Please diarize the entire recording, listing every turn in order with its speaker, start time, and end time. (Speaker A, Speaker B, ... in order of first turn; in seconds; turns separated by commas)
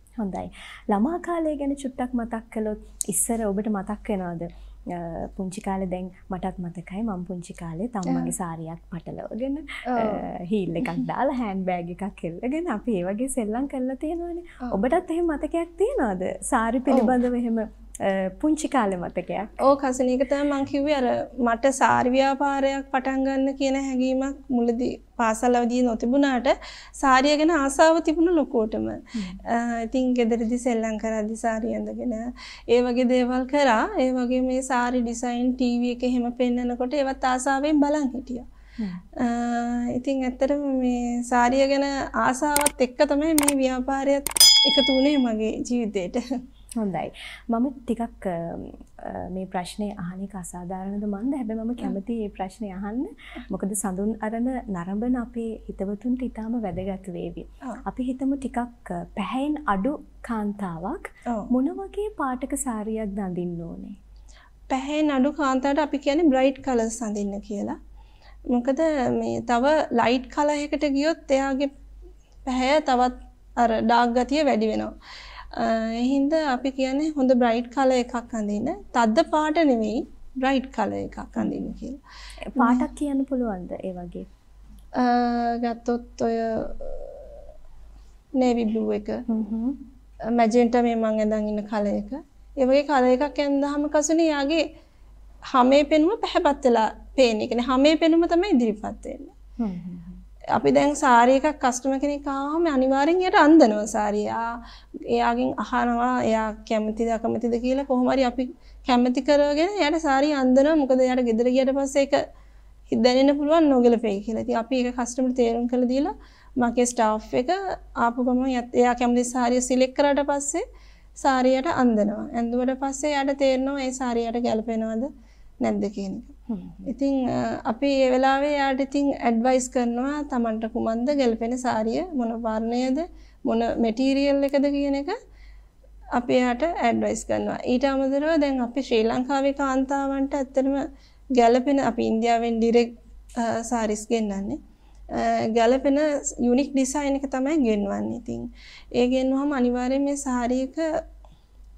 Speaker A: 0.2-19.6, Speaker B: 8.1-8.3, Speaker B: 9.9-10.2, Speaker B: 19.6-38.5, Speaker B: 39.2-46.2, Speaker A: 46.8-64.0, Speaker B: 64.7-67.8, Speaker B: 68.5-71.7, Speaker B: 72.5-74.9, Speaker B: 75.5-82.0, Speaker A: 81.4-81.7, Speaker A: 82.5-84.3, Speaker B: 82.6-82.9, Speaker B: 85.0-87.4, Speaker B: 88.4-89.2, Speaker A: 89.3-89.8, Speaker B: 90.3-94.7, Speaker B: 95.5-99.3, Speaker A: 99.6-100.2, Speaker B: 100.5-112.2, Speaker B: 112.9-120.6, Speaker B: 121.2-125.1, Speaker B: 125.6-135.2, Speaker A: 126.5-126.9, Speaker B: 136.2-140.8, Speaker B: 141.4-144.6, Speaker B: 145.1-151.0